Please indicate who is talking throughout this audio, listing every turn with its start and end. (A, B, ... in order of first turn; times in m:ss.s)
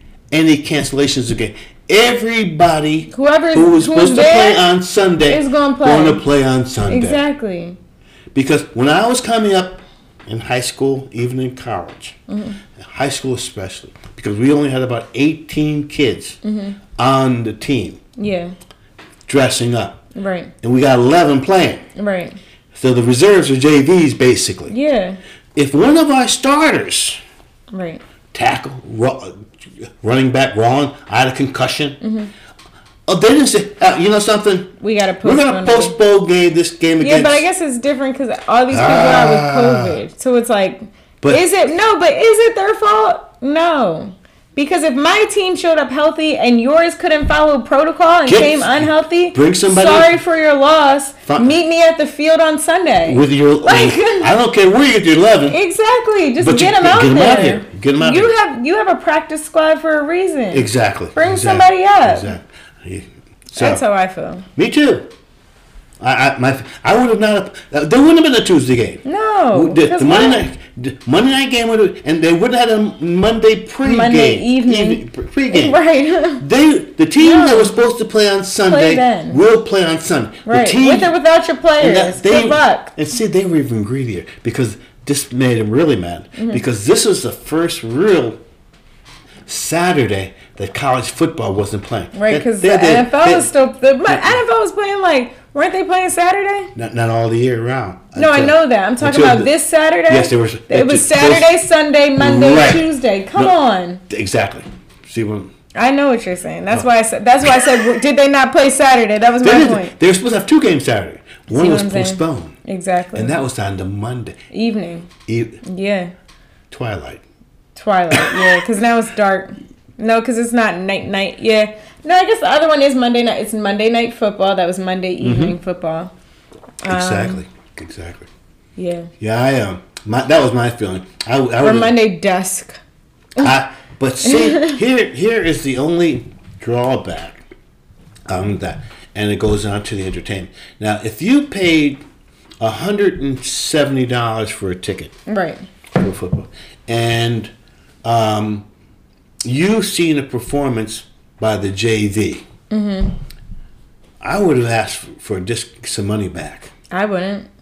0:00.3-0:07.2 A
0:03.1-0:04.7 B
0:05.3-0:06.2 B
0:06.9-0:07.8 B
0:08.3-0:12.2 A
0:12.3-0:12.6 B
0:12.8-0:16.4 A
0:16.4-0:16.8 B
0:17.0-0:18.0 A
0:18.2-0:18.5 B
0:19.3-0:20.1 A
0:20.2-0:20.5 B
0:20.6-0:21.8 A
0:22.0-0:22.4 B
0:22.7-0:24.8 A
0:24.7-0:25.2 B
0:25.6-0:27.2 A
0:27.7-0:28.0 B
0:28.3-0:29.5 A
0:30.0-0:32.0 A
0:32.0-0:32.3 B
0:33.1-0:37.5 A
0:34.8-0:36.0 B
0:37.0-0:54.3 B
0:38.7-0:40.0 A
0:48.3-0:50.2 A
0:51.3-0:51.6 A
0:53.0-0:55.6 A
0:55.5-1:02.3 B
0:56.4-0:58.3 A
1:00.5-1:03.8 A
1:03.6-1:04.5 B
1:04.6-1:05.1 A
1:06.0-1:15.8 A
1:09.0-1:10.4 B
1:13.8-1:16.4 B
1:16.4-1:21.1 A
1:17.2-1:17.8 B
1:18.6-1:19.4 B
1:20.5-1:22.9 B
1:21.8-1:28.4 A
1:26.4-1:26.6 B
1:29.5-1:33.5 A
1:32.1-1:36.7 B
1:34.1-1:34.4 A
1:36.8-1:39.5 A
1:38.2-1:44.0 B
1:40.1-1:41.5 A
1:42.2-1:43.5 A
1:44.1-1:45.5 A
1:45.8-1:50.0 B
1:49.4-1:52.6 A
1:51.5-1:53.4 B
1:53.1-1:54.4 A
1:54.5-1:55.1 B
1:55.3-1:55.6 A
1:55.6-1:56.1 B
1:56.7-1:57.2 A
1:57.8-2:06.1 B
1:58.1-1:58.4 A
2:05.2-2:05.6 A
2:06.8-2:07.4 B
2:06.8-2:08.3 A
2:08.8-2:09.1 B
2:09.2-2:12.0 A
2:11.6-2:12.8 B
2:13.4-2:17.4 A
2:14.2-2:14.8 B
2:18.3-2:22.0 A
2:22.6-2:25.1 A
2:25.3-2:25.7 B
2:26.0-2:27.5 A
2:28.0-2:28.7 A
2:29.4-2:32.4 A
2:32.7-2:33.2 B
2:34.2-2:36.7 A
2:36.9-2:37.5 B